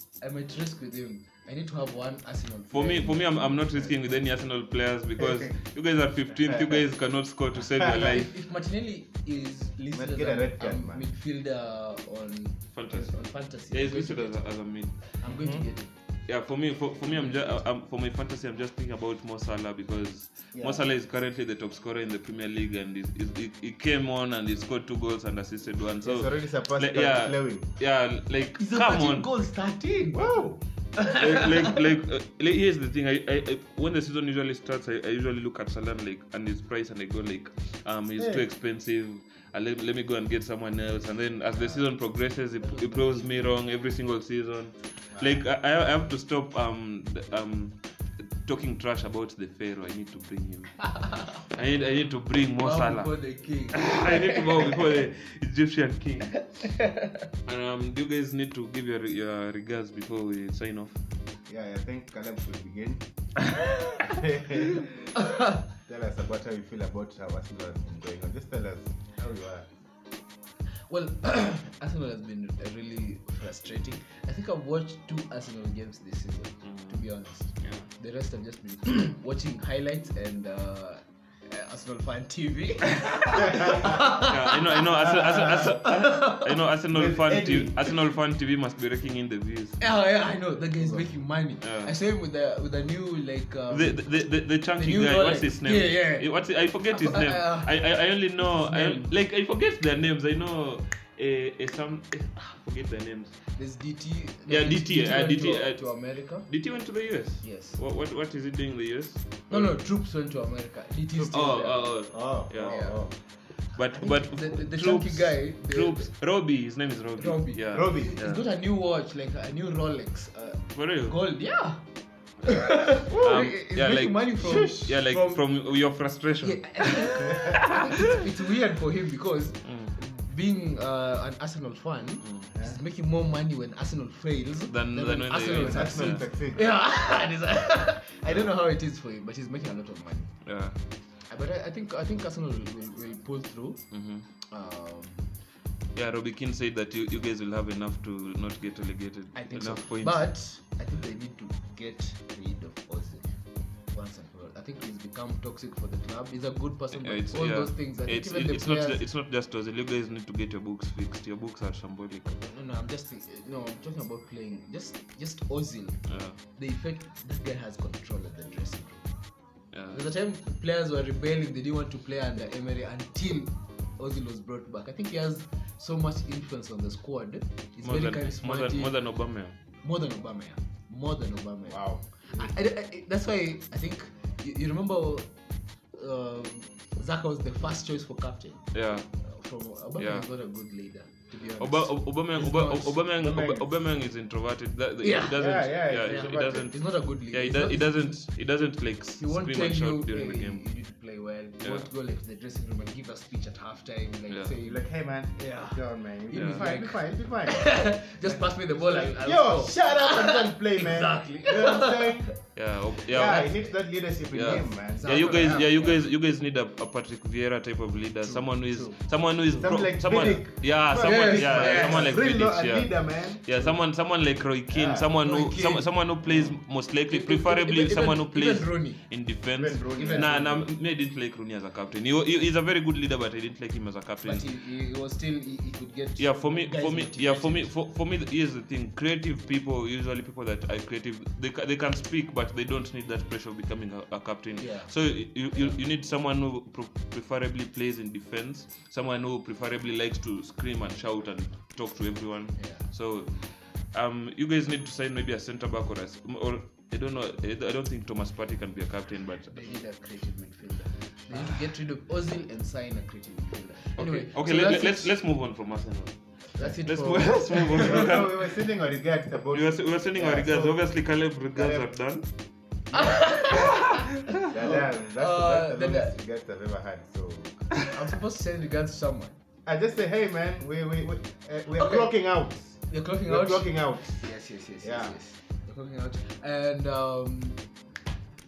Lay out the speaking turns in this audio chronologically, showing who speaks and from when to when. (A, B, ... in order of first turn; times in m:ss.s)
0:00.2-0:04.3 A
0:02.7-0:08.3 B
0:05.2-0:05.5 C
0:06.5-0:06.8 C
0:07.8-0:08.2 C
0:07.9-0:14.5 A
0:09.9-0:11.1 C
0:12.7-0:15.1 B
0:15.2-0:15.9 A
0:15.2-0:15.6 C
0:16.3-0:29.3 B
0:17.1-0:17.6 A
0:20.5-0:20.8 C
0:26.0-0:27.7 C
0:28.6-0:30.4 A
0:30.1-0:30.6 C
0:31.0-0:31.8 A
0:31.1-0:47.8 B
0:38.2-0:38.4 C
0:42.6-0:43.5 A
0:45.1-0:45.4 C
0:48.4-0:56.8 B
0:52.6-0:54.8 A
0:56.6-0:57.2 A
0:57.4-1:00.9 B
1:01.5-1:03.0 C
1:04.0-1:05.1 C
1:05.1-1:05.6 A
1:05.8-1:09.7 C
1:10.9-1:26.6 A
1:16.6-1:17.0 B
1:17.6-1:17.9 B
1:23.4-1:23.9 C
1:24.2-1:29.8 B
1:25.0-1:25.8 C
1:26.9-1:27.9 C
1:29.8-1:34.2 A
1:30.8-1:31.0 C
1:31.6-1:31.9 B
1:33.7-1:43.4 B
1:34.8-1:36.3 A
1:36.9-1:37.8 A
1:38.4-1:39.1 A
1:43.6-1:46.5 A
1:44.5-1:49.7 B
1:47.4-1:47.8 A
1:49.5-1:53.0 A
1:51.3-1:52.9 B
1:52.1-1:53.1 C
1:53.8-1:58.4 B
1:53.8-1:56.1 A
1:57.2-2:01.8 A
1:57.7-1:58.1 C
2:00.7-2:01.2 B
2:02.4-2:05.4 A
2:03.1-2:03.4 C
2:03.1-2:08.2 B
2:04.4-2:05.0 C
2:06.4-2:20.3 A
2:09.6-2:09.9 B
2:12.5-2:12.8 C
2:14.7-2:16.2 B
2:15.5-2:16.6 C
2:20.4-2:20.8 B
2:21.3-2:23.8 A
2:23.9-2:24.3 B
2:24.4-2:25.3 A
2:25.9-2:30.3 B
2:29.3-2:33.4 A
2:33.9-2:39.0 A
2:36.9-2:42.4 B
2:42.3-2:49.1 A
2:46.1-2:46.4 B
2:49.7-2:50.0 B
2:49.9-2:59.0 A
2:57.8-2:59.6 B
2:59.8-3:05.3 A
3:01.6-3:02.5 C
3:05.9-3:08.6 A
3:08.7-3:09.1 B
3:09.2-3:13.5 A
3:10.0-3:10.2 B
3:11.6-3:20.6 B
3:13.2-3:13.6 C
3:15.0-3:18.2 A
3:15.3-3:16.7 C
3:19.2-3:24.8 A
3:21.6-3:21.9 B
3:24.6-3:32.4 C
3:25.4-3:32.4 A
3:26.3-3:26.7 B
3:32.5-3:33.6 B
3:33.0-3:35.8 C
3:33.1-3:33.7 A
3:34.3-3:54.5 B
3:34.9-3:36.0 A
3:38.3-3:39.6 A
3:39.5-3:43.8 C
3:40.9-3:42.2 A
3:44.7-3:45.2 C
3:45.2-3:46.1 A
3:46.2-3:46.6 C
3:47.1-3:49.1 A
3:49.6-3:50.7 C
3:49.9-3:50.6 A
3:54.2-3:57.7 A
3:56.2-4:19.6 B
4:04.6-4:04.9 A
4:05.5-4:05.8 A
4:12.6-4:12.8 A
4:19.5-4:25.1 A
4:24.0-4:28.5 B
4:26.5-4:28.1 A
4:27.8-4:30.8 C
4:29.5-4:32.3 B
4:31.5-4:31.9 C
4:32.9-4:36.1 A
4:33.4-4:37.8 C
4:37.9-4:39.4 A
4:39.6-4:44.3 C
4:41.8-4:42.1 A
4:42.9-4:47.6 A
4:44.8-4:45.1 C